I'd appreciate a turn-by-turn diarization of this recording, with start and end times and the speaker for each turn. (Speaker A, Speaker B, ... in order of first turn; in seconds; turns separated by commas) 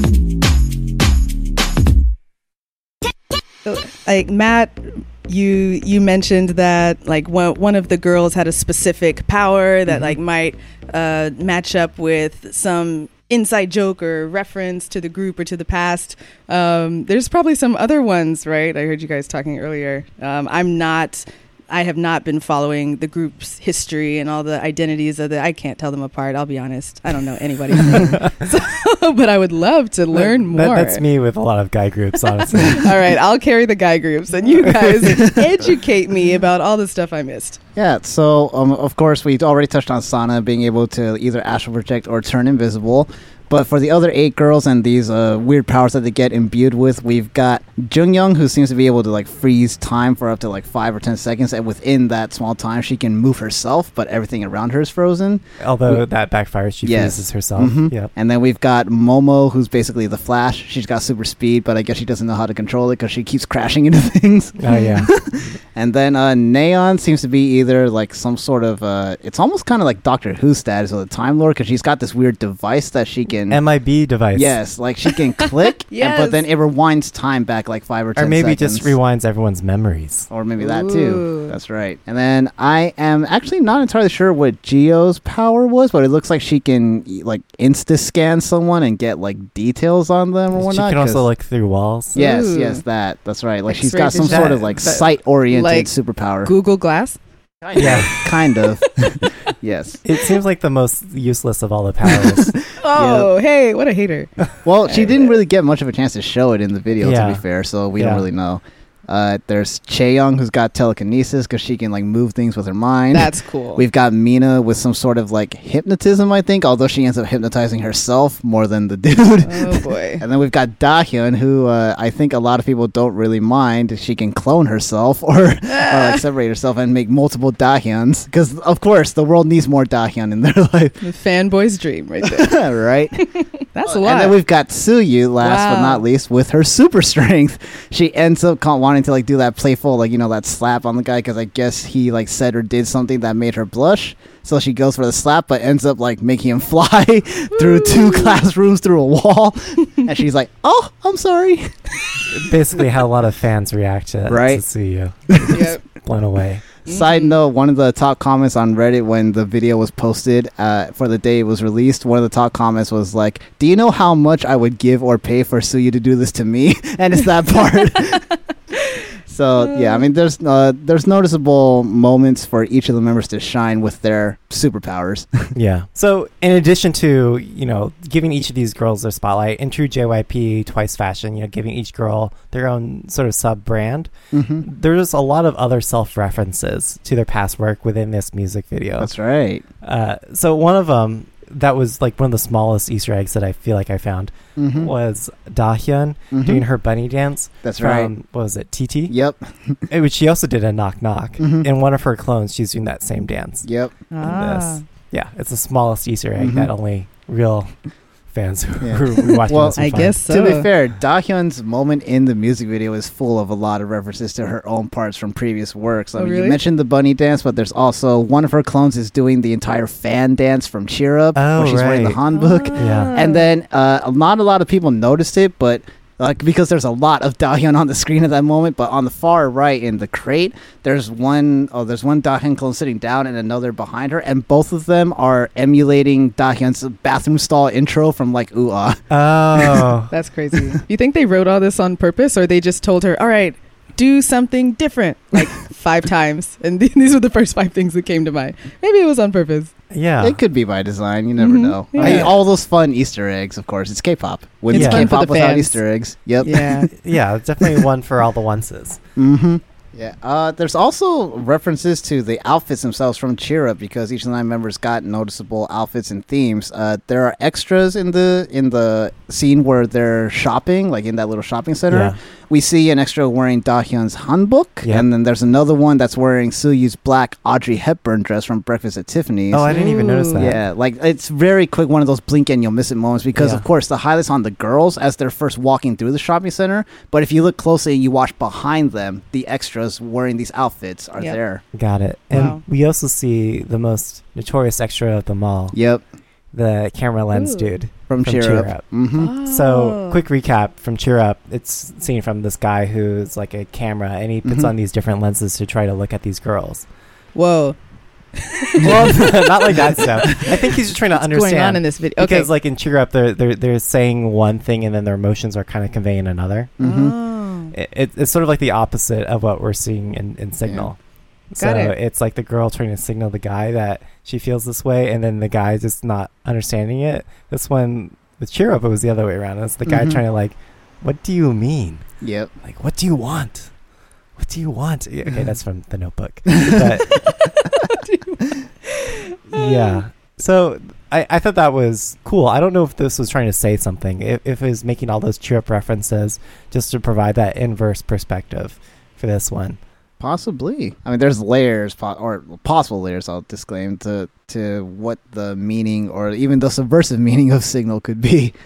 Speaker A: 3.6-31.0, Speaker B: 9.9-10.2, Speaker C: 30.1-33.0, Speaker A: 32.3-37.6, Speaker C: 34.8-35.2, Speaker B: 37.8-56.0, Speaker C: 55.6-58.1, Speaker B: 56.8-73.6, Speaker C: 64.6-65.1, Speaker A: 64.7-65.1, Speaker C: 73.5-74.6, Speaker B: 74.3-78.9, Speaker A: 75.9-76.4, Speaker C: 78.2-80.3, Speaker B: 80.3-91.2, Speaker A: 80.6-81.5, Speaker C: 90.5-92.2, Speaker B: 92.1-96.5, Speaker A: 92.2-92.8, Speaker A: 93.7-95.9, Speaker C: 94.2-95.0, Speaker A: 96.4-97.2, Speaker B: 97.7-100.0, Speaker C: 97.8-98.2, Speaker C: 100.0-102.6, Speaker A: 102.8-104.3, Speaker B: 102.9-103.3, Speaker B: 104.6-131.0, Speaker A: 104.8-105.3, Speaker C: 107.0-108.2, Speaker A: 113.1-113.8, Speaker A: 119.4-120.2, Speaker A: 125.7-126.2, Speaker A: 131.0-132.6, Speaker B: 132.2-133.2, Speaker A: 133.2-134.4, Speaker B: 133.8-151.8, Speaker A: 135.4-136.0, Speaker A: 147.6-148.3, Speaker C: 152.3-156.7, Speaker B: 154.3-154.6, Speaker B: 155.3-155.6, Speaker A: 155.5-155.8, Speaker A: 156.8-157.3, Speaker B: 156.9-168.2, Speaker B: 169.3-175.5, Speaker A: 169.6-170.0, Speaker C: 175.5-184.1, Speaker B: 184.3-184.7, Speaker C: 184.6-189.1, Speaker B: 189.0-189.6, Speaker C: 189.8-199.1, Speaker B: 194.6-194.9, Speaker B: 196.3-196.6, Speaker B: 197.6-198.1, Speaker B: 199.1-199.8, Speaker C: 199.9-203.7, Speaker B: 201.4-201.7, Speaker B: 203.6-203.9, Speaker A: 204.1-204.8, Speaker C: 204.2-207.7, Speaker B: 206.3-206.7, Speaker C: 208.3-210.2, Speaker B: 208.8-239.0, Speaker A: 209.8-210.7, Speaker A: 216.2-216.6, Speaker C: 221.3-222.2, Speaker A: 222.3-223.4, Speaker C: 222.8-223.1, Speaker C: 239.1-240.1, Speaker B: 239.5-239.9, Speaker A: 240.1-249.7, Speaker C: 249.9-250.4, Speaker B: 250.2-256.7, Speaker A: 251.4-252.3, Speaker C: 252.0-252.3, Speaker A: 254.7-255.8, Speaker C: 254.7-255.0, Speaker A: 256.4-256.9, Speaker C: 256.9-259.0, Speaker B: 259.2-279.8, Speaker C: 271.9-272.1, Speaker C: 279.5-280.6, Speaker A: 279.7-280.5, Speaker B: 280.4-291.6, Speaker C: 283.4-283.6, Speaker C: 291.7-295.8, Speaker A: 292.3-292.6, Speaker B: 295.7-296.0, Speaker C: 296.5-298.9, Speaker A: 297.3-297.7, Speaker B: 298.1-299.3, Speaker A: 299.2-300.2, Speaker C: 299.4-306.9, Speaker B: 304.4-304.7, Speaker A: 307.3-307.8, Speaker A: 308.3-310.5, Speaker B: 308.8-309.3, Speaker C: 308.8-316.8, Speaker A: 311.1-312.5, Speaker B: 316.8-317.1, Speaker A: 316.8-317.7, Speaker C: 317.7-321.0, Speaker C: 321.5-332.1, Speaker A: 321.6-321.9, Speaker B: 329.9-330.2, Speaker B: 332.2-332.5, Speaker C: 332.6-333.7, Speaker C: 334.4-337.5, Speaker A: 337.3-340.0, Speaker C: 339.5-349.8, Speaker B: 350.2-358.5